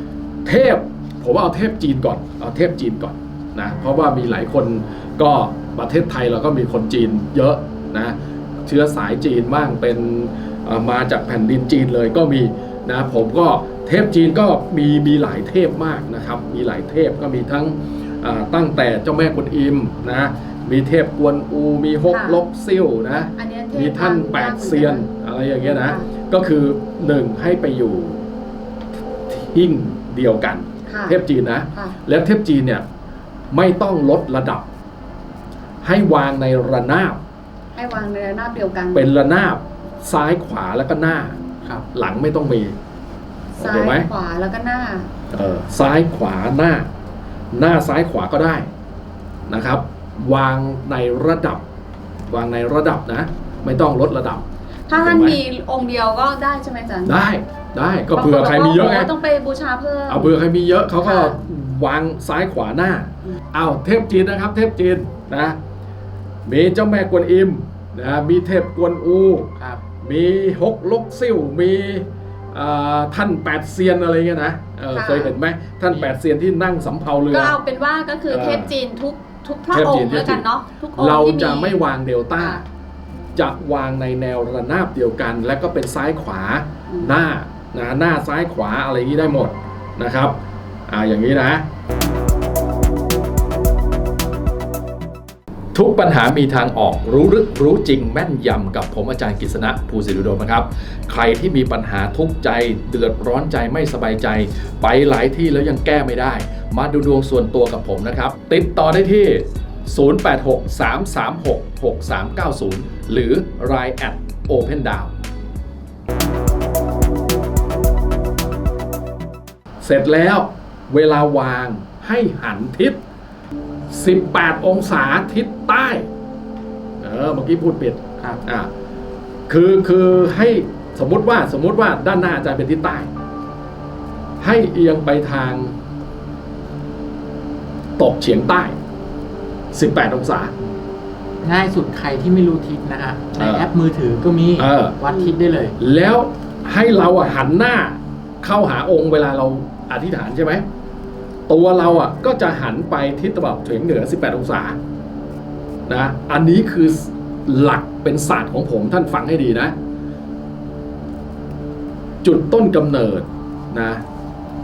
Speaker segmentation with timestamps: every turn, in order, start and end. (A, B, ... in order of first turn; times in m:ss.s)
0:00.4-0:28.2 A
0:22.1-0:22.4 B
0:23.3-0:25.1 B
0:25.6-0:26.0 B
0:29.3-0:32.8 A
0:30.9-0:31.2 B
0:33.5-0:34.7 A
0:35.8-0:37.2 A
0:37.7-0:39.1 B
0:38.9-0:41.4 A
0:41.9-0:42.8 A
0:43.6-0:44.1 A
0:43.6-0:45.1 B
0:45.3-0:46.9 A
0:47.5-0:48.7 A
0:49.5-0:51.6 A
0:52.3-0:55.4 A
0:54.9-0:57.2 B
0:57.0-0:59.1 A
0:58.1-1:00.4 B
1:00.1-1:05.6 A
1:01.0-1:01.4 B
1:06.4-1:09.5 A
1:09.6-1:09.8 C
1:10.0-1:17.6 A
1:14.9-1:15.3 B
1:17.3-1:21.8 B
1:18.3-1:18.7 A
1:19.7-1:20.4 A
1:21.0-1:22.6 A
1:22.4-1:22.6 B
1:23.4-1:30.3 A
1:30.9-1:31.6 A
1:35.7-1:55.1 A
1:59.8-2:03.0 A
2:03.9-2:06.1 A
2:07.0-2:08.7 A
2:09.5-2:13.1 A
2:14.4-2:15.8 A
2:18.0-2:18.8 A
2:19.7-2:20.5 A
2:21.4-2:25.8 C
2:23.4-2:23.7 A
2:24.6-2:25.0 A
2:25.1-2:25.3 B
2:25.8-2:30.6 A
2:31.5-2:34.8 A
2:35.9-2:39.7 A
2:42.2-2:44.0 A